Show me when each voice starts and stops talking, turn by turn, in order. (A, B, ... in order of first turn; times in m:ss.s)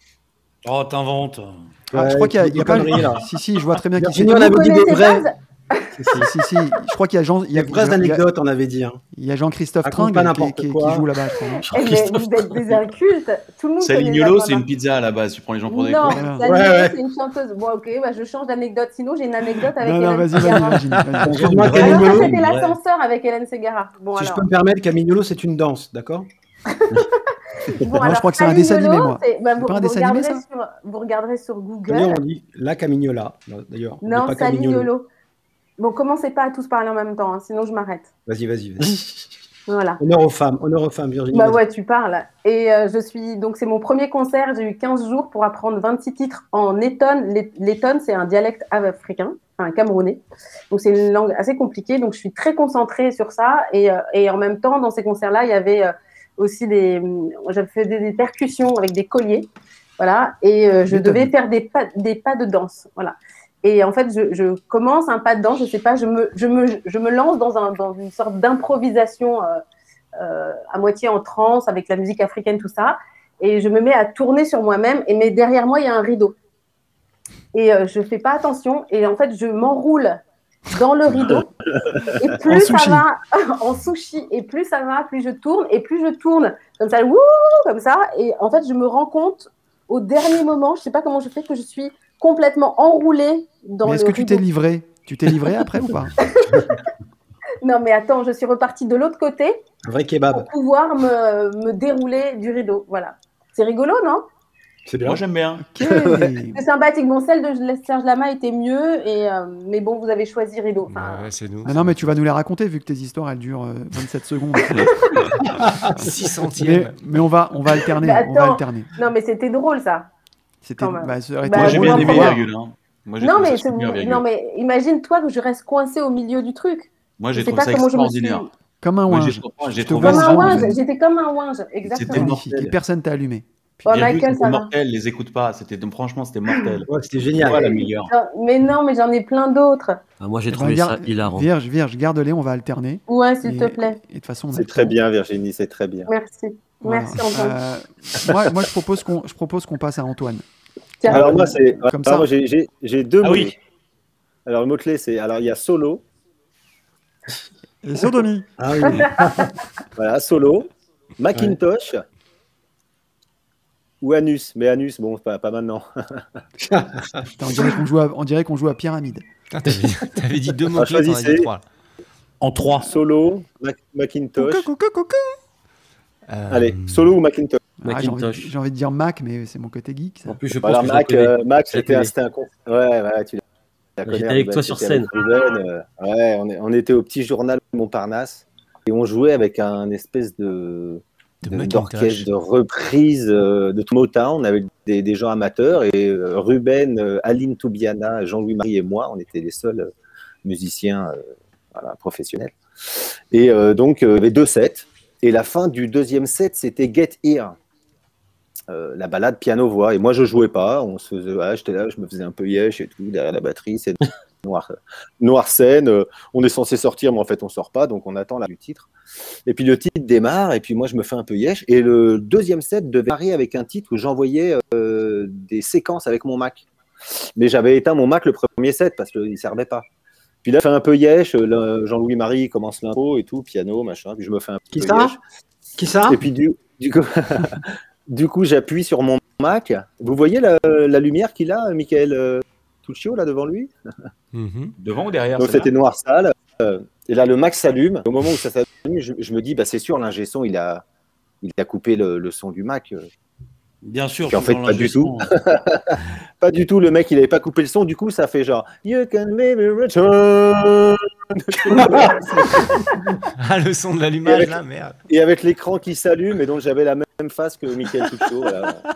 0:00.6-0:01.7 A
0:01.9-0:03.3 B
0:01.9-0:04.7 C
0:04.0-0:05.3 B
0:04.3-0:05.9 D
0:06.0-0:06.3 B
0:06.1-0:08.2 C
0:07.5-0:09.0 B
0:09.1-0:11.7 C
0:09.8-0:11.1 B
0:11.7-0:14.6 D
0:11.7-0:12.3 E
0:13.8-0:16.3 F
0:15.7-0:20.8 D
0:16.1-0:16.5 C
0:16.4-0:17.0 B
0:19.8-0:21.7 C
0:21.2-0:22.4 B
0:21.4-0:22.3 A
0:21.6-0:24.4 D
0:22.4-0:22.7 F
0:24.2-0:26.3 B
0:26.7-0:32.2 D
0:28.0-0:30.4 C
0:31.9-0:34.9 B
0:34.0-0:35.1 D
0:35.8-0:38.1 D
0:38.3-0:39.2 B
0:39.7-0:40.0 D
0:40.0-0:41.6 B
0:41.3-1:09.6 D
1:00.9-1:01.3 B
1:10.2-1:16.4 D
1:17.5-1:21.5 D
1:22.1-1:34.4 D
1:22.4-1:23.1 C
1:33.8-1:36.2 C
1:36.2-1:36.8 D
1:37.6-1:39.6 D
1:39.8-1:40.5 B
1:40.3-1:44.3 D
1:44.9-1:45.2 B
1:45.0-1:45.7 F
1:45.7-1:46.6 C
1:46.6-1:51.3 D
1:50.9-1:52.0 G
1:51.6-1:55.3 C
1:55.6-1:56.9 G
1:56.0-1:58.9 C
1:58.0-2:00.1 D
2:00.6-2:02.4 C
2:00.8-2:02.4 D
2:01.5-2:04.2 F
2:03.2-2:08.5 D
2:07.2-2:08.5 F
2:08.8-2:10.8 C
2:09.1-2:10.8 F
2:10.0-2:12.4 D
2:11.8-2:12.8 F
2:12.1-2:13.9 C
2:13.8-2:14.7 D
2:13.9-2:18.1 F
2:16.9-2:17.8 B
2:17.6-2:20.0 D
2:20.2-2:21.5 E
2:20.5-2:25.0 C
2:23.1-2:24.0 D
2:24.5-2:26.1 H
2:26.1-2:27.6 D
2:26.8-2:30.4 C
2:31.0-2:33.6 H
2:31.1-2:32.3 C
2:31.1-2:31.5 B
2:33.2-2:33.5 A
2:34.5-2:36.0 H
2:37.8-2:39.1 C
2:38.6-2:39.6 B
2:38.9-2:39.5 D
2:40.0-2:42.0 H
2:44.0-2:46.2 H
2:46.7-2:47.0 B
2:47.3-2:49.2 C
2:49.5-2:51.6 G
2:50.7-2:51.5 H
2:52.4-2:53.0 A
2:52.6-2:54.7 H
2:54.4-2:55.3 G
2:56.3-2:57.1 G
2:56.5-2:57.6 H
2:57.8-3:00.4 C
2:57.8-2:58.5 E
3:00.3-3:02.1 E
3:00.6-3:03.4 H
3:04.0-3:19.9 H
3:04.1-3:05.1 E
3:11.4-3:12.3 G
3:20.4-3:21.2 H
3:21.7-3:27.6 H
3:28.7-3:38.9 H
3:39.5-3:46.7 H
3:47.4-3:49.9 H
3:50.4-3:55.2 H
3:54.7-3:55.2 B
3:55.8-3:56.2 B
3:56.1-4:03.7 H
4:04.3-4:04.8 G
4:04.8-4:05.7 F
4:05.4-4:10.8 H
4:11.4-4:13.1 H
4:13.8-4:15.3 A
4:14.3-4:22.9 H
4:21.7-4:22.9 B
4:23.4-4:25.0 G
4:24.2-4:28.8 H